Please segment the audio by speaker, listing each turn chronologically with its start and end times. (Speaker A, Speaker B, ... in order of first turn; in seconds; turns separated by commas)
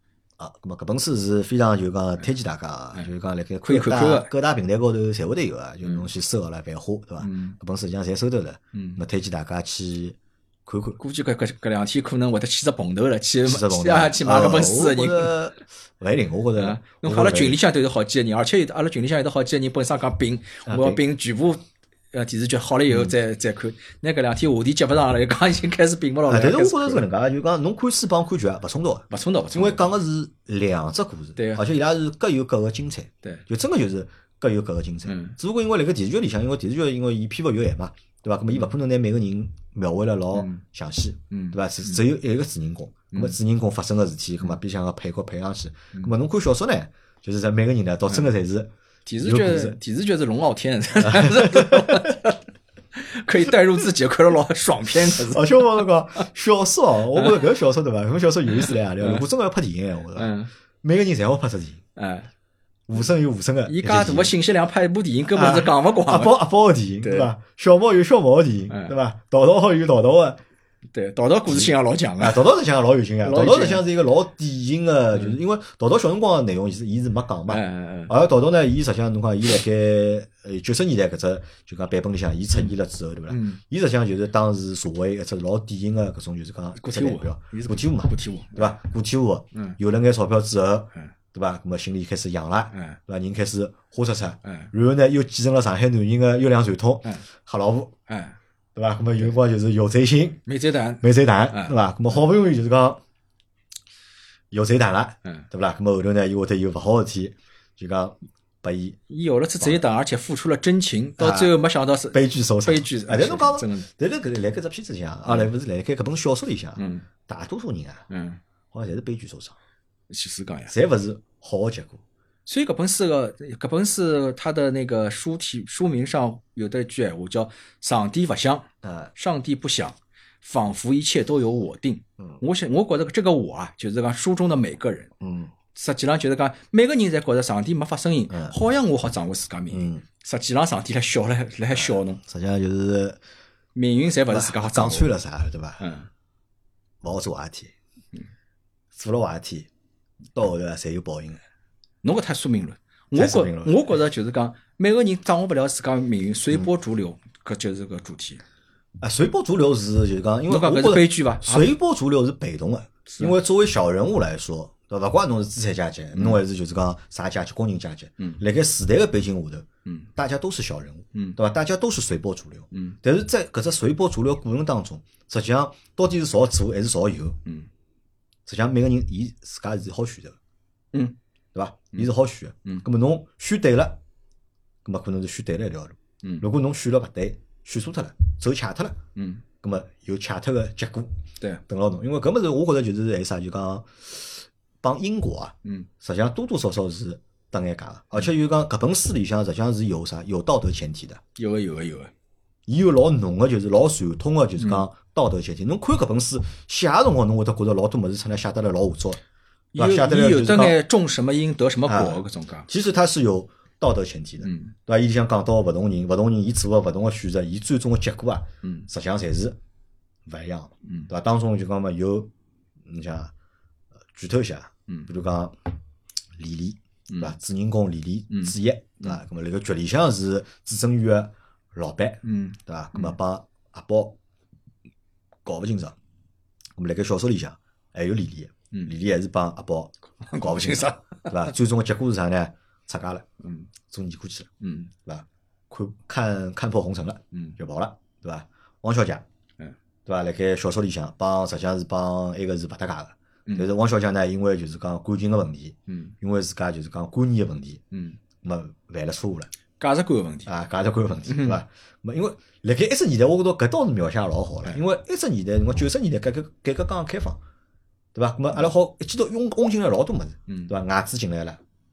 Speaker A: 0.4-11.0, Speaker B: 3.6-4.3, Speaker B: 7.2-7.6, Speaker B: 8.7-9.0, Speaker B: 11.0-15.3, Speaker A: 13.4-17.6, Speaker B: 16.6-27.0, Speaker A: 20.6-21.0, Speaker A: 26.3-49.8, Speaker B: 29.1-29.9, Speaker B: 31.4-31.6, Speaker B: 35.0-35.4, Speaker B: 40.3-40.6, Speaker B: 41.3-42.0, Speaker B: 49.0-52.4, Speaker A: 51.0-52.1, Speaker B: 52.9-55.6, Speaker A: 55.0-61.8, Speaker B: 57.1-57.4, Speaker B: 58.5-59.2, Speaker B: 60.1-60.5, Speaker B: 62.0-62.3, Speaker A: 62.9-64.3, Speaker B: 63.6-66.3, Speaker A: 65.3-70.4, Speaker B: 67.0-67.3, Speaker B: 68.7-68.9, Speaker B: 70.9-72.5, Speaker A: 71.5-97.9, Speaker B: 73.2-73.8, Speaker B: 77.5-78.1, Speaker B: 83.3-83.6, Speaker B: 86.8-88.7, Speaker B: 92.7-93.0, Speaker B: 94.4-94.7, Speaker B: 98.1-98.4, Speaker A: 98.7-100.4, Speaker B: 100.5-101.7, Speaker A: 101.0-103.0, Speaker A: 104.5-109.0, Speaker B: 109.1-113.9, Speaker A: 111.2-111.5, Speaker A: 112.1-118.0, Speaker B: 116.8-117.1, Speaker B: 118.1-118.4, Speaker A: 118.7-119.5, Speaker B: 120.1-120.7, Speaker A: 120.7-122.0, Speaker B: 122.5-135.1, Speaker A: 128.8-129.1, Speaker A: 135.2-135.5, Speaker B: 135.7-142.2, Speaker A: 138.3-138.5, Speaker A: 139.7-140.0, Speaker A: 141.7-143.2, Speaker B: 143.7-145.1, Speaker A: 144.3-145.8, Speaker B: 145.8-146.1, Speaker A: 147.0-147.7, Speaker A: 148.9-149.7, Speaker A: 150.3-151.4, Speaker B: 152.0-158.4, Speaker A: 153.1-153.8, Speaker A: 159.0-177.4, Speaker B: 160.5-161.8, Speaker B: 163.1-163.4, Speaker B: 169.8-170.1, Speaker B: 172.7-173.0, Speaker A: 178.4-180.4, Speaker A: 181.5-184.0, Speaker A: 184.8-189.0, Speaker B: 189.2-189.4, Speaker A: 189.6-201.2, Speaker B: 201.3-202.1, Speaker A: 202.7-209.2, Speaker B: 204.6-204.9, Speaker B: 209.7-212.7, Speaker A: 209.8-210.8, Speaker A: 211.8-219.6, Speaker B: 214.4-214.7, Speaker B: 218.6-218.9, Speaker A: 220.2-222.3, Speaker B: 220.8-221.1, Speaker A: 222.8-223.3, Speaker A: 224.1-225.7, Speaker A: 226.4-234.2, Speaker B: 227.1-227.3, Speaker B: 228.3-229.2, Speaker B: 232.2-233.2, Speaker A: 235.4-235.9, Speaker A: 236.8-243.2, Speaker B: 240.2-241.5, Speaker B: 243.4-243.7, Speaker A: 243.9-244.5, Speaker B: 244.6-244.9, Speaker A: 245.0-249.2, Speaker A: 250.0-257.8, Speaker B: 255.9-256.1, Speaker B: 257.9-258.2, Speaker A: 258.4-259.5, Speaker B: 259.8-260.5, Speaker A: 260.4-267.4, Speaker B: 261.3-261.6, Speaker A: 268.1-271.6